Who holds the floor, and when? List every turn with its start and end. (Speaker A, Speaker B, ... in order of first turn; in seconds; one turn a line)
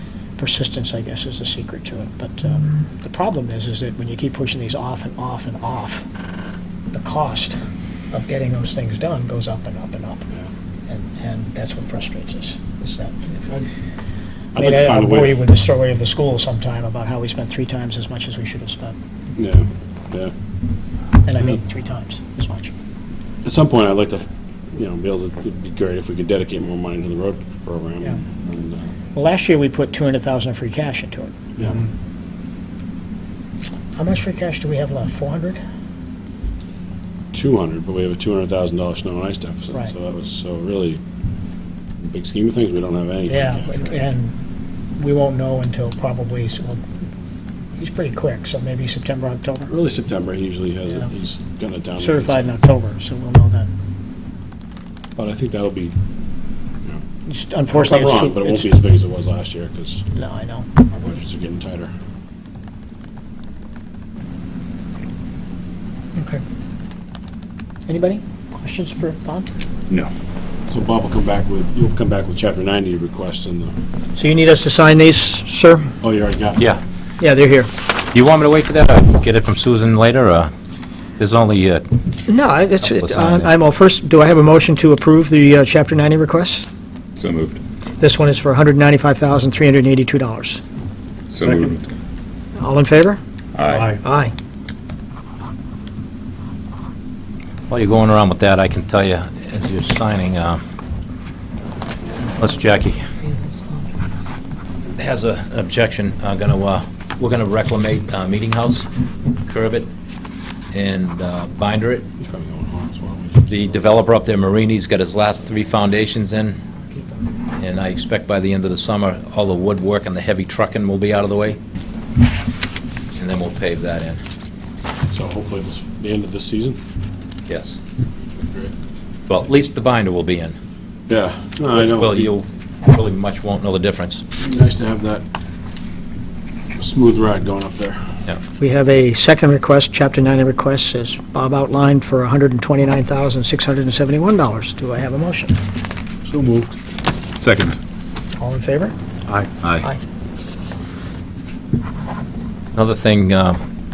Speaker A: 0.4-6.0
Speaker A: 6.9-7.5
Speaker A: 8.1-10.2
Speaker A: 10.9-13.4
Speaker B: 14.5-15.5
Speaker A: 14.6-18.9
Speaker B: 19.4-20.3
Speaker A: 21.2-22.7
Speaker B: 23.4-28.9
Speaker A: 29.1-31.3
Speaker B: 31.6-31.8
Speaker A: 34.0-35.6
Speaker B: 37.3-41.0
Speaker B: 42.0-44.0
Speaker A: 43.3-44.3
Speaker A: 45.0-46.8
Speaker A: 47.8-49.7
Speaker B: 49.7-52.6
Speaker A: 52.0-53.7
Speaker B: 55.1-55.9
Speaker A: 57.3-58.7
Speaker B: 57.7-60.0
Speaker A: 60.1-60.7
Speaker B: 60.8-61.9
Speaker A: 66.2-66.4
Speaker A: 67.9-69.5
Speaker B: 70.7-73.7
Speaker A: 74.2-75.9
Speaker B: 76.0-76.7
Speaker A: 77.2-77.7
Speaker C: 78.1-80.5
Speaker C: 81.2-81.8
Speaker A: 82.3-86.7
Speaker C: 82.8-83.5
Speaker D: 87.2-87.6
Speaker A: 88.0-90.6
Speaker D: 91.3-91.9
Speaker A: 92.6-93.2
Speaker D: 93.5-94.0
Speaker A: 93.9-94.3
Speaker C: 97.7-100.6
Speaker C: 102.3-103.0
Speaker C: 105.0-108.9
Speaker C: 109.5-109.9
Speaker C: 110.7-112.1
Speaker B: 112.2-113.9
Speaker C: 113.5-116.6
Speaker C: 117.6-121.6
Speaker C: 123.1-124.2
Speaker B: 125.1-126.8
Speaker C: 127.5-127.8
Speaker B: 128.4-128.7
Speaker C: 129.3-130.6
Speaker B: 131.1-132.3
Speaker C: 131.7-134.2
Speaker B: 134.4-135.2
Speaker B: 136.8-138.0
Speaker A: 138.6-145.6
Speaker B: 146.3-146.6
Speaker D: 147.3-147.8
Speaker A: 148.4-148.9
Speaker D: 149.4-149.8
Speaker C: 152.7-153.6